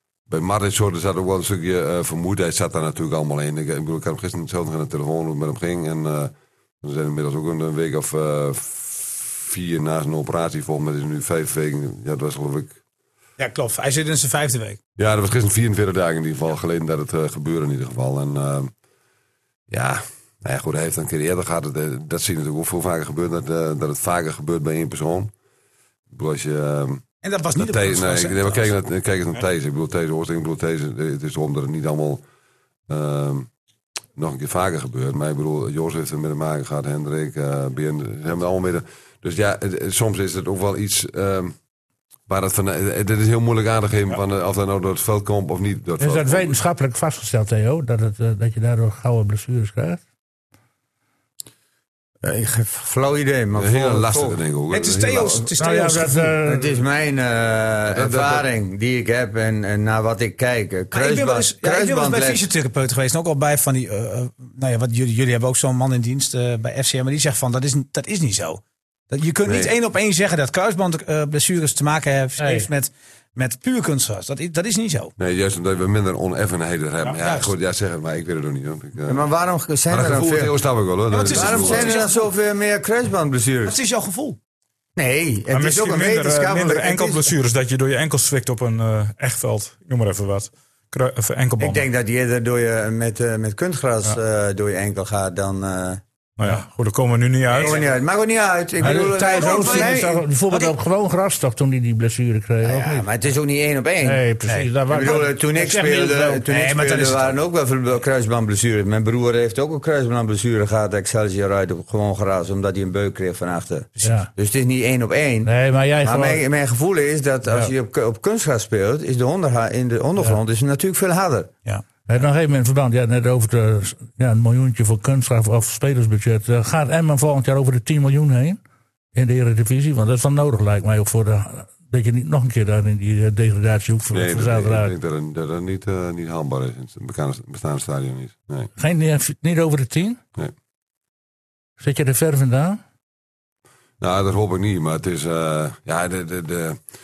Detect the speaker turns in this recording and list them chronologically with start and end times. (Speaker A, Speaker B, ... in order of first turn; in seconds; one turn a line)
Speaker A: 0.3-12.8
Speaker B: 13.4-14.8
Speaker A: 15.0-18.7
Speaker A: 19.7-25.3
Speaker A: 26.1-27.0
Speaker B: 27.2-28.7
Speaker A: 27.6-32.2
Speaker A: 32.9-33.5
Speaker A: 34.2-41.5
Speaker A: 42.3-46.6
Speaker C: 46.0-50.0
Speaker D: 52.2-54.4
Speaker A: 53.6-55.5
Speaker B: 54.7-56.3
Speaker C: 55.6-56.7
Speaker D: 56.4-62.5
Speaker A: 57.9-58.5
Speaker B: 60.9-75.1
Speaker A: 69.5-69.7
Speaker C: 72.4-72.7
Speaker A: 75.2-79.2
Speaker B: 77.2-77.5
Speaker D: 79.0-80.6
Speaker A: 79.9-82.0
Speaker B: 81.1-82.2
Speaker D: 81.2-83.8
Speaker B: 83.6-84.4
Speaker D: 85.0-87.3
Speaker E: 85.5-91.8
Speaker D: 91.6-96.0
Speaker E: 96.4-97.8
Speaker D: 97.5-100.2
Speaker C: 98.8-103.1
Speaker B: 98.9-100.7
Speaker D: 102.6-104.3
Speaker C: 104.0-106.4
Speaker B: 104.5-105.0
Speaker D: 104.9-115.5
Speaker B: 106.4-107.3
Speaker C: 114.0-114.3
Speaker C: 115.5-116.4
Speaker D: 116.0-121.5
Speaker C: 122.0-128.6
Speaker C: 129.1-134.9
Speaker A: 134.1-138.7
Speaker C: 138.8-140.2
Speaker C: 141.8-142.8
Speaker A: 144.0-146.8